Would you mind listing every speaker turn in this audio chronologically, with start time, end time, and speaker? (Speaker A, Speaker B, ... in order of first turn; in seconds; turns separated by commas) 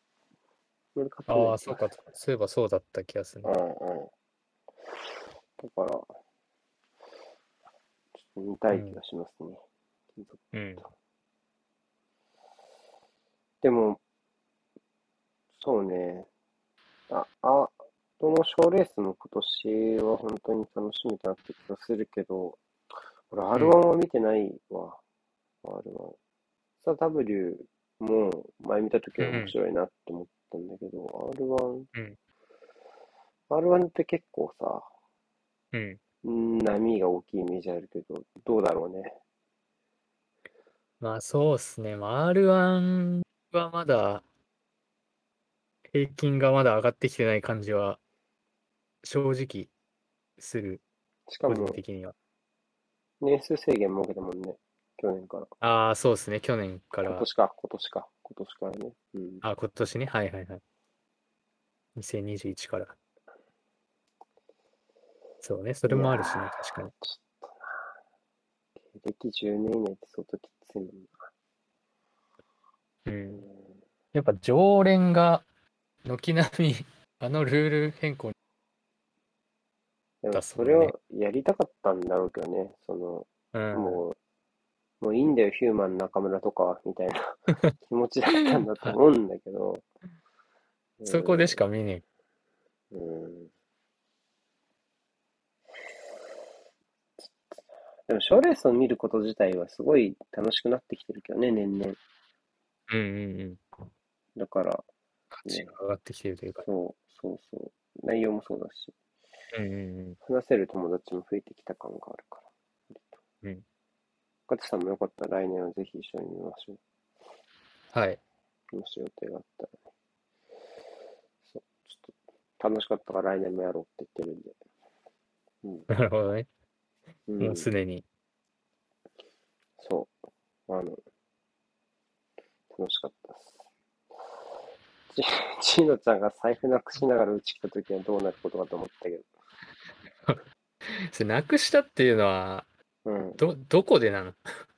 Speaker A: 0.9-1.9, Speaker B: 1.3-3.6, Speaker A: 3.4-4.1, Speaker A: 5.6-6.2, Speaker A: 8.2-9.6, Speaker B: 8.7-9.0, Speaker A: 10.2-10.4, Speaker B: 10.5-10.8, Speaker A: 13.6-14.0, Speaker A: 15.5-16.3, Speaker A: 17.1-22.6, Speaker A: 23.3-25.0, Speaker A: 25.6-26.2, Speaker A: 26.8-31.9, Speaker B: 29.2-29.6, Speaker A: 33.5-34.9, Speaker B: 35.7-36.0, Speaker A: 36.2-39.2, Speaker B: 41.0-44.2, Speaker B: 45.9-48.0, Speaker B: 49.0-49.7, Speaker B: 50.4-50.8, Speaker A: 51.3-51.8, Speaker B: 51.5-52.1, Speaker A: 53.2-55.5, Speaker B: 55.6-57.3, Speaker A: 57.0-59.4, Speaker B: 59.4-60.6, Speaker B: 62.0-63.0, Speaker B: 65.4-66.9, Speaker A: 65.9-67.8, Speaker A: 68.9-71.1, Speaker B: 73.1-73.5, Speaker A: 73.4-73.7, Speaker B: 74.1-75.5, Speaker B: 76.0-78.3, Speaker A: 80.2-84.2, Speaker B: 80.3-80.9, Speaker B: 83.5-84.0, Speaker A: 85.0-89.9, Speaker A: 91.0-91.6, Speaker B: 91.0-92.0, Speaker A: 92.9-93.5, Speaker A: 97.2-97.5, Speaker A: 98.1-102.0, Speaker B: 102.9-103.6, Speaker A: 104.4-104.9, Speaker B: 105.3-106.7, Speaker A: 105.5-105.7, Speaker A: 106.6-109.0, Speaker B: 109.5-110.2, Speaker A: 110.2-113.2, Speaker A: 114.5-116.8, Speaker B: 117.9-118.2, Speaker A: 118.7-119.7, Speaker A: 121.5-124.6, Speaker A: 125.6-125.9, Speaker B: 125.9-126.5, Speaker A: 127.3-127.7, Speaker B: 127.4-128.1, Speaker A: 129.8-130.1, Speaker A: 130.7-131.0, Speaker A: 132.7-133.6, Speaker A: 135.1-139.3, Speaker B: 140.2-142.7, Speaker A: 143.1-143.4, Speaker B: 143.4-144.5